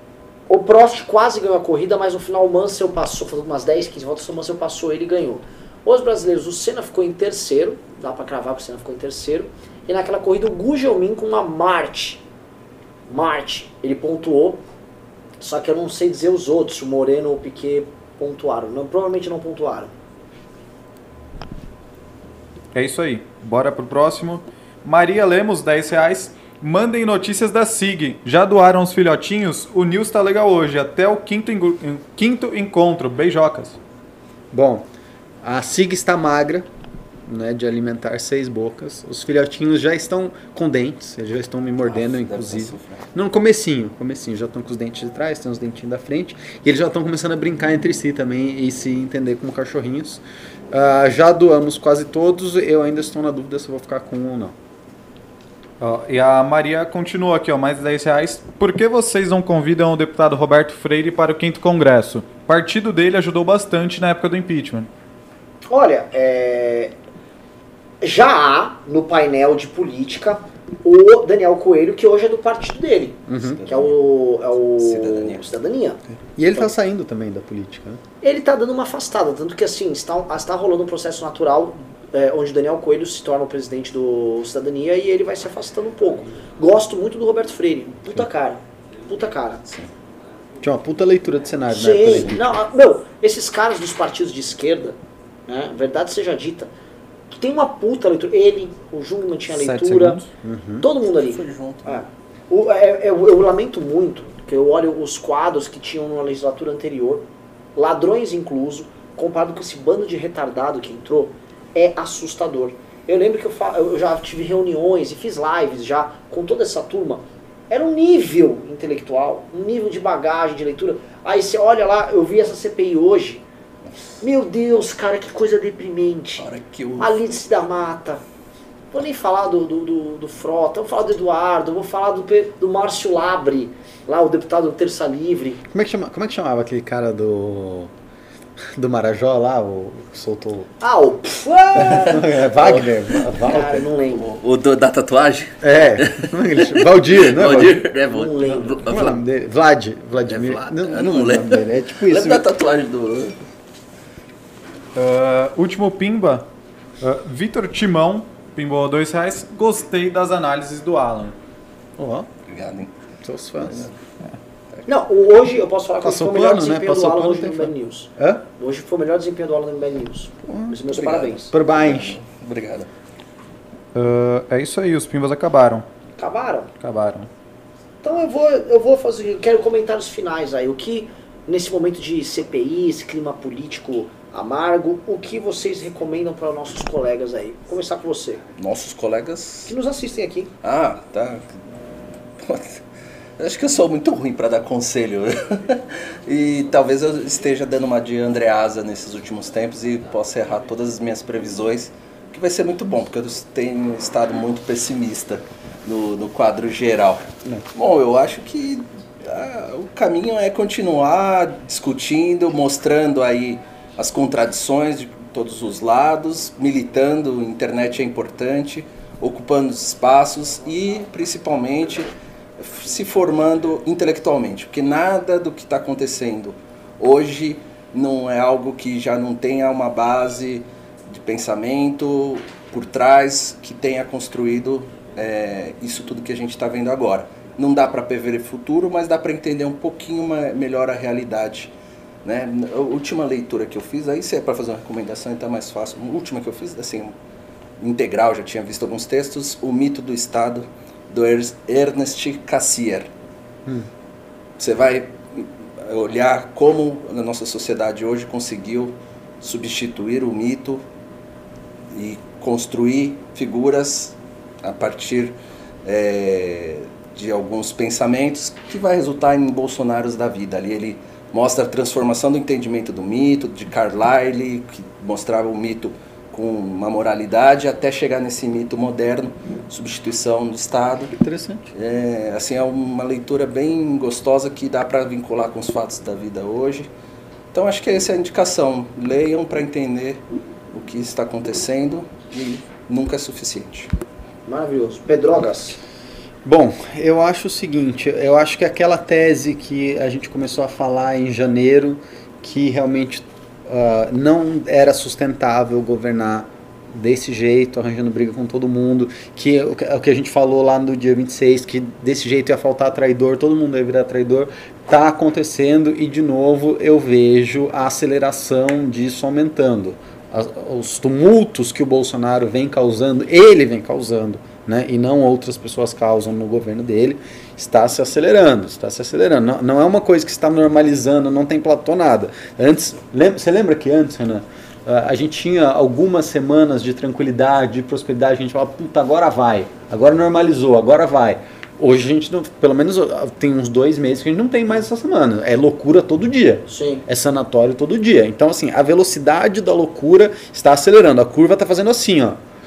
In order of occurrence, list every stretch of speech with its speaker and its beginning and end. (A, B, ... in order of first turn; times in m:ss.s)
0:00.5-0:12.2 A
0:13.1-0:14.6 A
0:15.4-0:19.9 A
0:22.7-0:33.8 B
0:34.5-0:34.8 C
0:35.4-0:36.7 C
0:37.3-0:54.5 C
0:41.8-0:43.0 D
0:55.8-1:04.9 B
1:05.7-1:06.9 A
1:08.0-1:16.0 A
1:13.3-1:13.6 C
1:13.3-1:14.0 D
1:14.8-1:15.4 D
1:16.3-1:18.0 C
1:18.2-1:29.6 A
1:30.6-1:32.4 C
1:31.7-1:36.7 A
1:32.1-1:32.5 D
1:37.3-1:40.2 A
1:39.5-1:40.3 B
1:40.4-1:40.9 C
1:40.8-2:03.4 A
1:41.2-1:42.0 D
2:03.8-2:04.2 D
2:04.2-2:06.5 A
2:06.4-2:07.3 D
2:07.0-2:08.2 A
2:08.9-2:15.6 A
2:15.7-2:17.9 C
2:18.6-2:20.7 C
2:20.8-2:22.3 A
2:21.8-2:29.2 D
2:21.9-2:23.8 C
2:23.4-2:24.2 A
2:25.6-2:27.8 C
2:28.1-2:28.9 A
2:28.8-2:32.4 C
2:30.2-2:33.4 D
2:34.9-2:36.5 B
2:37.0-2:41.4 B
2:42.0-2:42.3 C
2:42.5-2:43.0 D
2:43.2-2:43.9 C
2:43.6-2:44.0 D
2:44.8-2:51.5 A
2:46.0-2:48.4 C
2:50.4-2:50.8 C
2:50.9-2:52.9 D
2:51.5-2:52.2 C
2:53.9-2:55.8 B
2:56.2-2:56.7 A
2:56.8-2:57.3 B
2:58.0-3:08.4 A
3:08.6-3:09.7 D
3:09.6-3:10.5 A
3:10.6-3:11.5 D
3:12.4-3:12.8 D
3:13.4-4:01.7 D
4:02.2-4:07.1 D
4:07.8-4:13.1 D
4:14.6-4:20.8 D
4:21.9-4:41.1 D
4:41.2-4:41.7 C
4:41.7-4:46.9 D
4:47.5-4:50.2 D
4:50.7-4:53.9 D
4:54.5-4:55.8 A
4:56.4-5:52.4 C
5:46.7-5:47.0 A